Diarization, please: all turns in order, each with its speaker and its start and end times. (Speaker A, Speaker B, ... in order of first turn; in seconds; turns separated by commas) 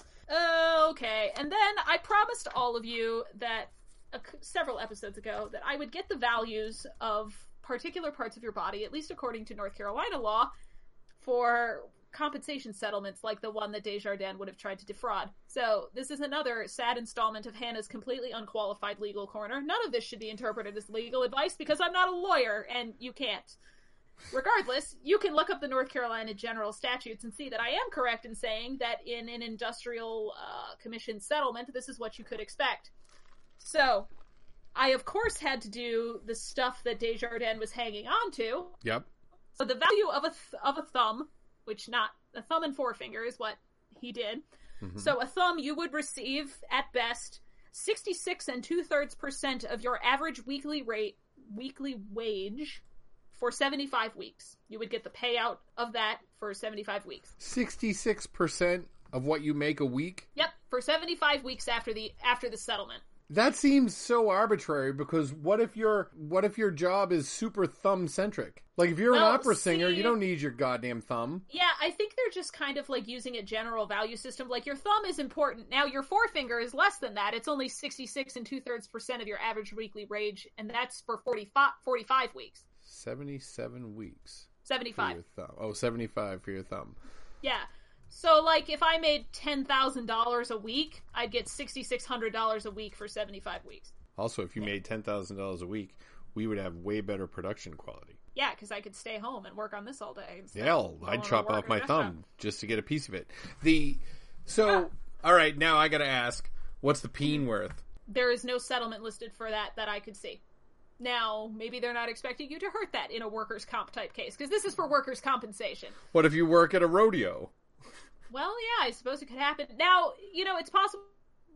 Speaker A: 0.3-10.5, Speaker A: 11.2-23.6, Speaker A: 24.3-32.9, Speaker A: 33.6-34.1, Speaker A: 34.8-38.8, Speaker B: 38.8-39.1, Speaker A: 39.5-44.4, Speaker B: 44.8-45.1, Speaker A: 45.0-52.8, Speaker A: 53.3-57.3, Speaker B: 57.4-60.3, Speaker A: 60.4-63.0, Speaker B: 63.3-71.5, Speaker A: 69.1-70.2, Speaker A: 71.5-82.7, Speaker B: 82.8-87.0, Speaker A: 84.7-85.2, Speaker A: 87.4-93.9, Speaker B: 94.2-98.2, Speaker A: 98.3-102.2, Speaker B: 100.5-107.8, Speaker A: 108.1-110.4, Speaker A: 111.0-116.0, Speaker B: 116.1-117.5, Speaker A: 118.3-121.1